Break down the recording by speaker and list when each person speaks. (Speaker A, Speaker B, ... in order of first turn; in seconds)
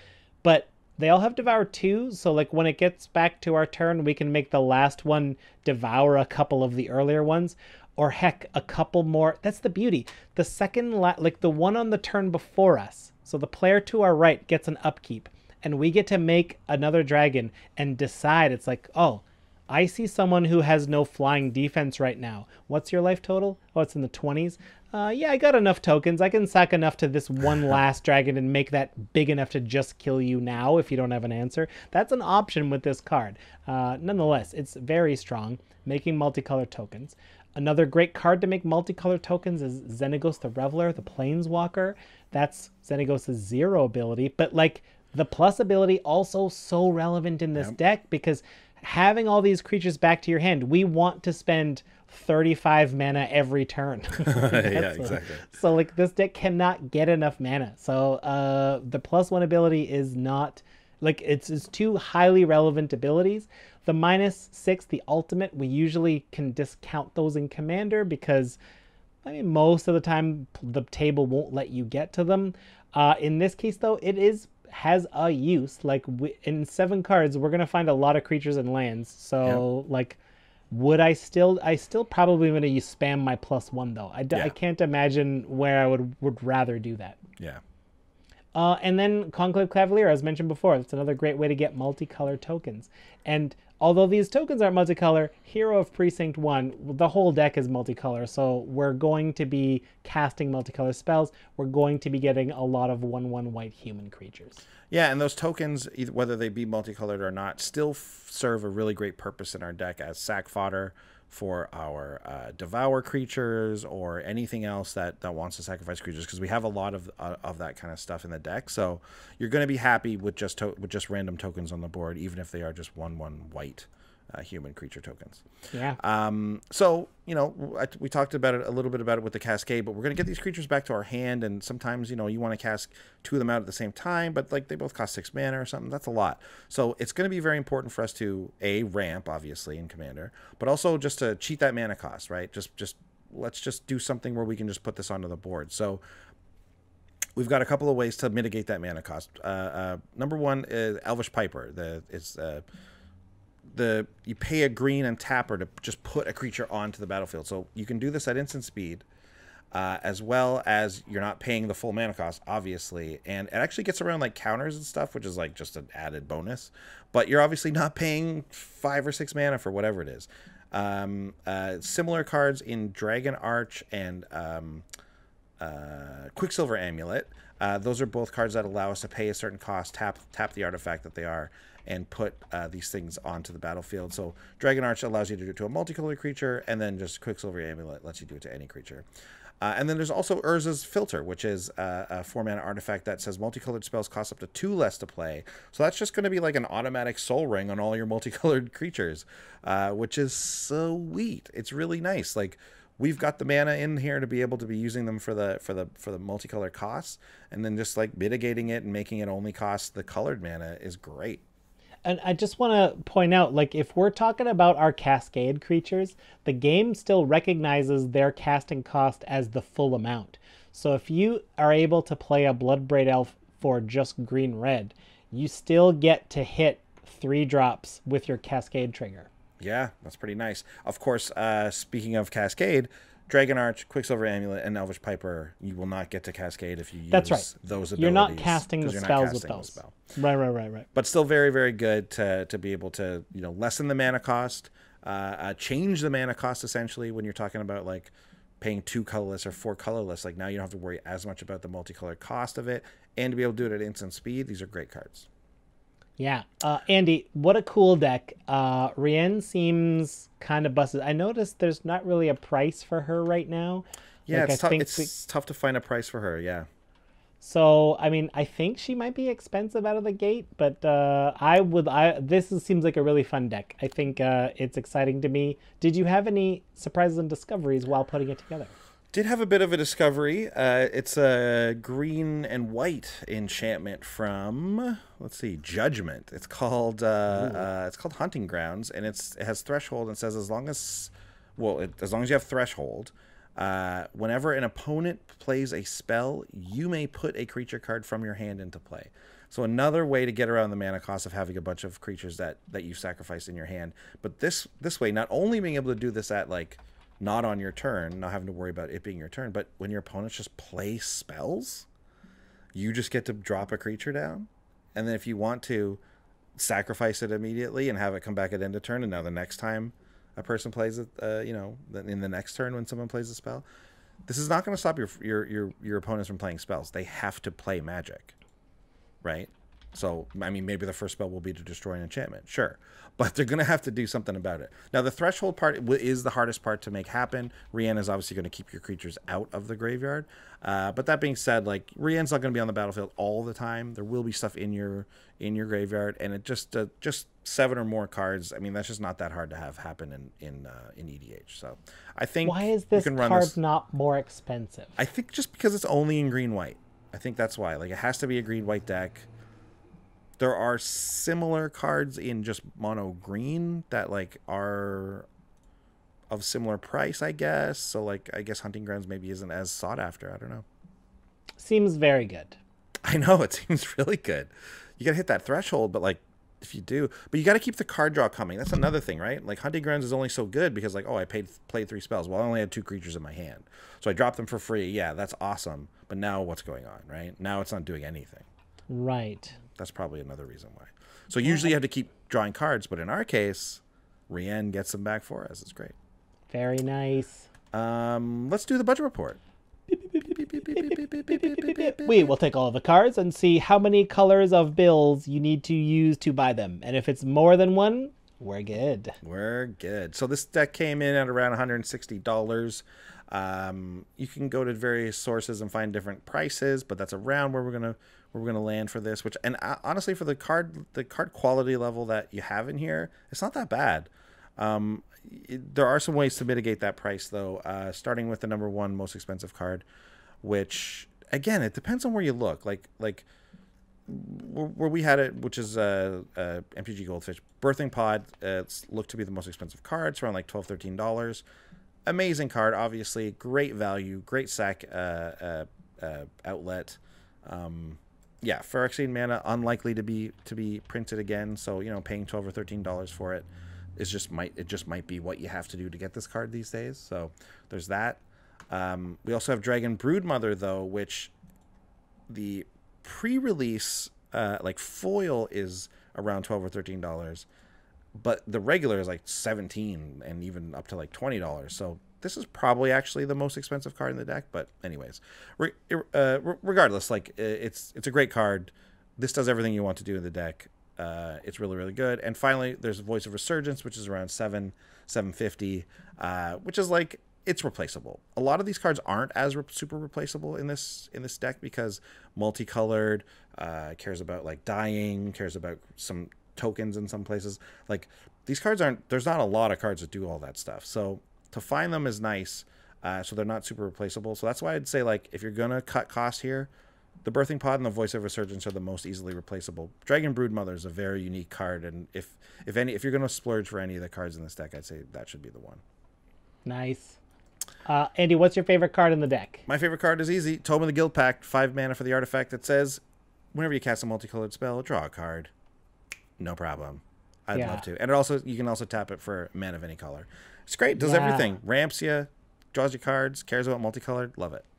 Speaker A: 0.4-68.6, 69.2-80.2, 80.7-87.2, 88.5-104.6, 125.7-126.0, 212.0-229.3, 237.1-240.9, 256.2-265.1, 267.4-278.7, 287.4-287.6, 352.4-355.0, 371.6-372.6, 388.9-389.6, 391.4-391.7, 396.5-397.5, 399.9-409.2, 516.6-517.2, 517.9-519.6, 527.5-527.8, 530.9-531.5
Speaker B: 54.3-55.4, 104.9-125.4, 126.0-146.0, 147.3-152.6, 153.7-159.1, 159.7-174.8, 175.6-189.1, 189.6-211.4, 229.6-239.9, 240.9-255.3, 264.3-266.7, 279.1-311.9, 312.7-316.0, 316.6-323.6, 324.3-328.3, 329.2-353.6, 355.0-359.3, 360.4-365.2, 366.3-370.6, 373.0-388.5, 389.8-395.9, 397.7-399.4, 400.3-402.3, 409.2-429.9, 430.4-433.3, 434.1-441.4, 442.1-461.3, 462.3-467.5, 468.2-506.7, 507.2-515.8, 519.7-523.0, 523.5-525.5, 526.4-534.6